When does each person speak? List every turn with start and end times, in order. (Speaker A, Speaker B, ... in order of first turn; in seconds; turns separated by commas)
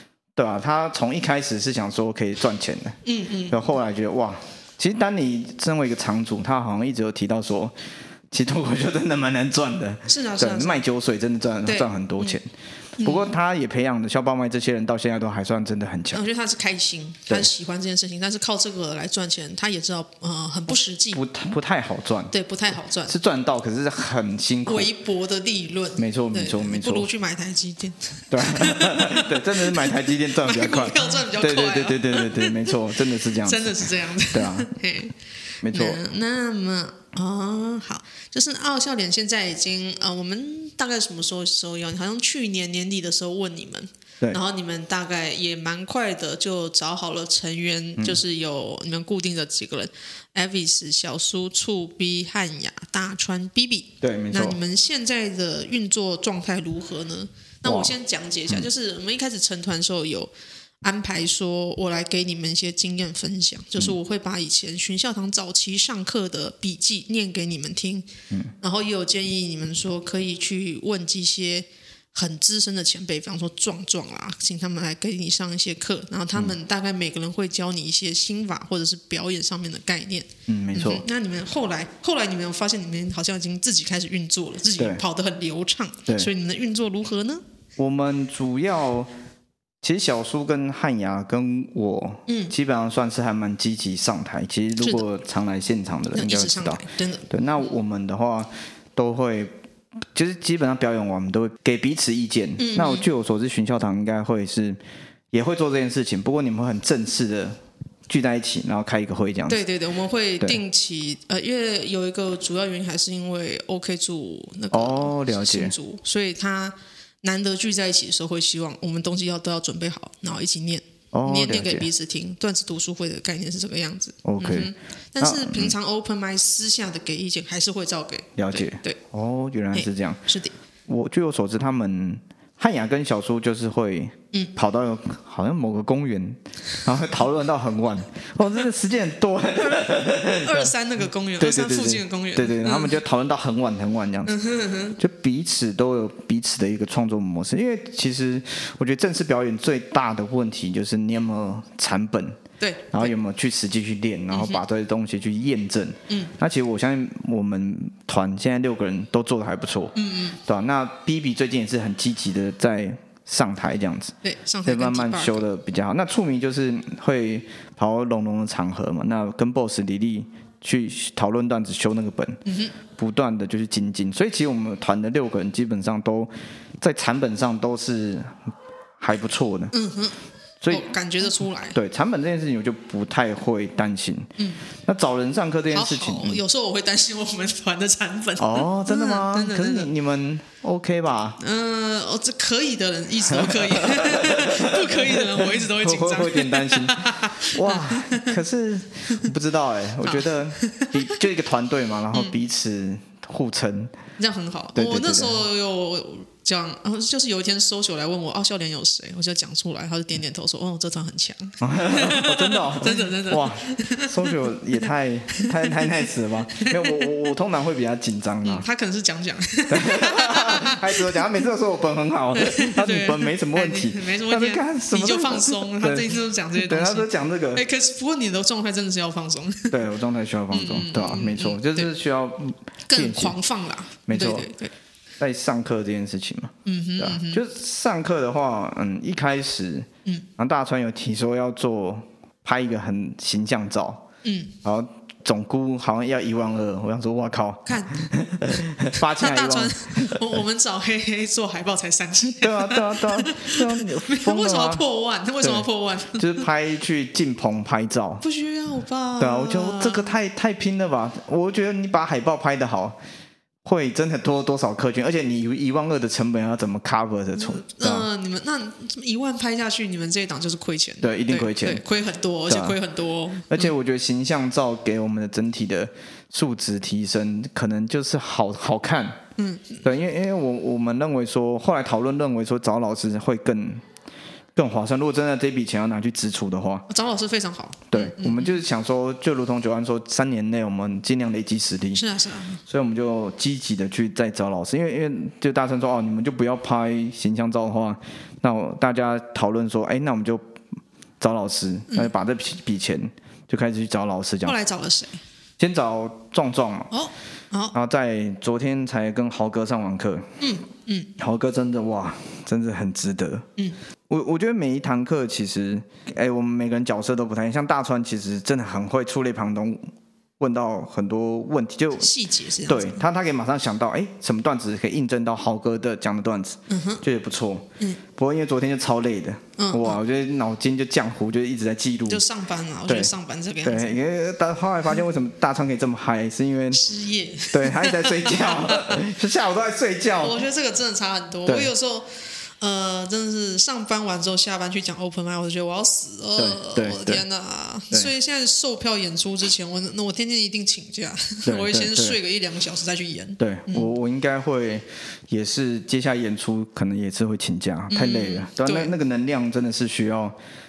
Speaker A: 0.3-3.0, Speaker B: 3.0-3.6, Speaker A: 3.5-7.7, Speaker A: 8.3-12.5, Speaker B: 10.1-10.8, Speaker B: 11.6-12.4, Speaker B: 13.0-13.3, Speaker A: 13.0-16.2, Speaker B: 16.1-21.2, Speaker A: 21.1-22.3, Speaker B: 22.3-23.1, Speaker A: 23.1-24.9, Speaker B: 24.6-60.3, Speaker A: 26.0-27.1, Speaker A: 28.3-34.7, Speaker A: 35.6-36.0, Speaker A: 54.0-54.6, Speaker A: 57.6-57.9, Speaker B: 60.8-68.1, Speaker B: 68.6-87.4, Speaker A: 80.5-81.0, Speaker A: 87.8-89.1, Speaker A: 89.8-99.5, Speaker B: 92.3-92.5, Speaker B: 96.1-97.3, Speaker A: 100.1-104.8, Speaker B: 102.6-103.1, Speaker A: 105.3-109.6, Speaker B: 109.5-129.0, Speaker A: 114.7-115.7, Speaker A: 121.1-121.9, Speaker A: 124.2-125.7, Speaker A: 128.4-130.2, Speaker B: 129.7-130.5, Speaker A: 130.9-140.7, Speaker B: 140.4-142.9, Speaker A: 141.4-144.4, Speaker B: 144.2-145.0, Speaker A: 145.0-152.4, Speaker B: 152.6-153.1, Speaker A: 152.9-164.1, Speaker B: 154.3-154.6, Speaker B: 159.9-160.4, Speaker B: 164.2-165.4, Speaker A: 164.6-172.4, Speaker B: 172.4-172.7, Speaker A: 172.9-178.4, Speaker A: 179.0-179.7, Speaker B: 179.7-180.2, Speaker A: 180.6-186.4, Speaker B: 180.7-181.8, Speaker B: 185.7-189.9, Speaker A: 188.4-191.4, Speaker B: 191.4-198.3, Speaker A: 193.3-203.9, Speaker B: 200.0-201.2, Speaker B: 204.2-215.9, Speaker A: 204.7-205.4, Speaker A: 211.6-218.7, Speaker B: 216.5-217.1, Speaker B: 218.4-221.3, Speaker A: 219.7-227.6, Speaker B: 222.3-229.8, Speaker A: 229.7-233.4, Speaker B: 230.5-231.9, Speaker B: 232.9-234.7, Speaker A: 234.1-234.5, Speaker A: 235.2-244.0, Speaker B: 236.7-237.4, Speaker B: 244.2-244.5, Speaker A: 244.6-250.3, Speaker B: 247.7-248.1, Speaker B: 249.0-256.4, Speaker A: 252.4-254.8, Speaker A: 255.4-258.2, Speaker B: 258.2-260.1, Speaker A: 259.2-263.0, Speaker A: 263.6-268.1, Speaker B: 267.3-273.7, Speaker A: 271.0-271.8, Speaker A: 272.5-272.8, Speaker A: 273.5-279.2, Speaker B: 279.4-279.8, Speaker A: 279.8-283.8, Speaker A: 284.6-286.9, Speaker B: 286.9-288.6, Speaker A: 287.9-292.0, Speaker B: 291.9-292.6, Speaker A: 292.7-300.4, Speaker A: 301.2-304.6, Speaker B: 304.4-305.2, Speaker A: 305.6-306.9, Speaker B: 306.9-307.7, Speaker A: 307.7-310.3, Speaker B: 310.4-311.1, Speaker A: 311.2-313.5, Speaker A: 314.1-319.9, Speaker A: 320.4-322.1, Speaker B: 322.0-323.0, Speaker A: 322.6-332.2, Speaker B: 326.7-327.0, Speaker B: 329.6-330.0, Speaker B: 332.1-334.0, Speaker A: 332.9-333.1, Speaker A: 333.6-336.9, Speaker B: 336.7-339.0, Speaker A: 337.5-340.4, Speaker B: 340.2-353.9, Speaker A: 341.4-341.7, Speaker A: 346.4-347.2, Speaker A: 351.4-352.2, Speaker A: 353.4-360.4, Speaker B: 357.9-358.9